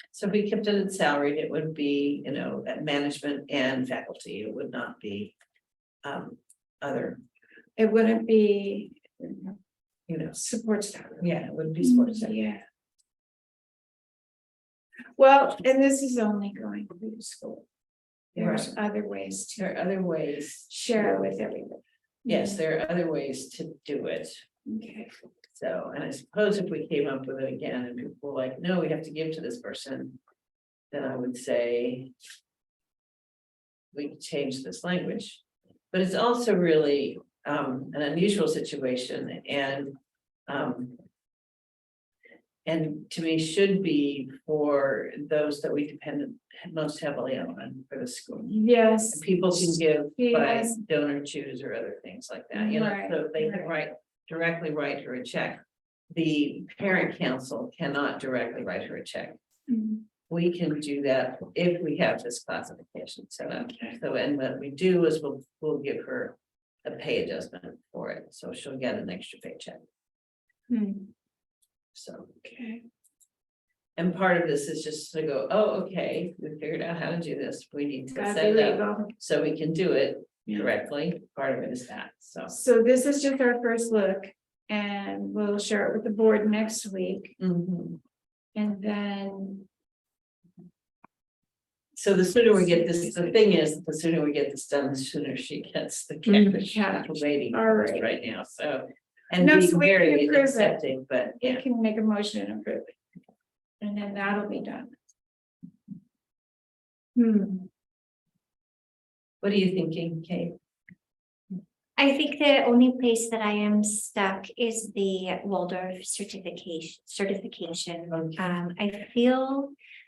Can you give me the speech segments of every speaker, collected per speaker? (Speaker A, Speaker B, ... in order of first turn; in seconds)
Speaker A: 0.1-5.3, 6.0-7.2, 10.1-10.4, 11.2-12.4, 18.3-18.7, 19.6-21.2, 22.2-24.4, 25.5-30.2, 30.9-32.1, 33.9-39.9, 40.5-40.9, 42.6-48.5, 49.1-59.4, 60.3-69.8, 71.9-72.3, 74.0-82.5, 87.4-88.0, 92.0-101.6, 109.4-110.5, 118.1-118.5
Speaker B: 7.8-9.6, 10.3-12.6, 15.2-17.6, 18.4-19.7, 20.7-22.6, 24.6-25.1, 48.5-50.8, 52.5-53.7, 59.7-60.0, 63.7-63.9, 70.7-71.1, 72.4-72.8, 78.1-79.1, 82.5-87.3, 88.5-89.7, 96.4-98.1, 99.4-100.8, 101.4-103.0, 103.8-104.9
Speaker C: 107.2-107.7, 112.0-119.7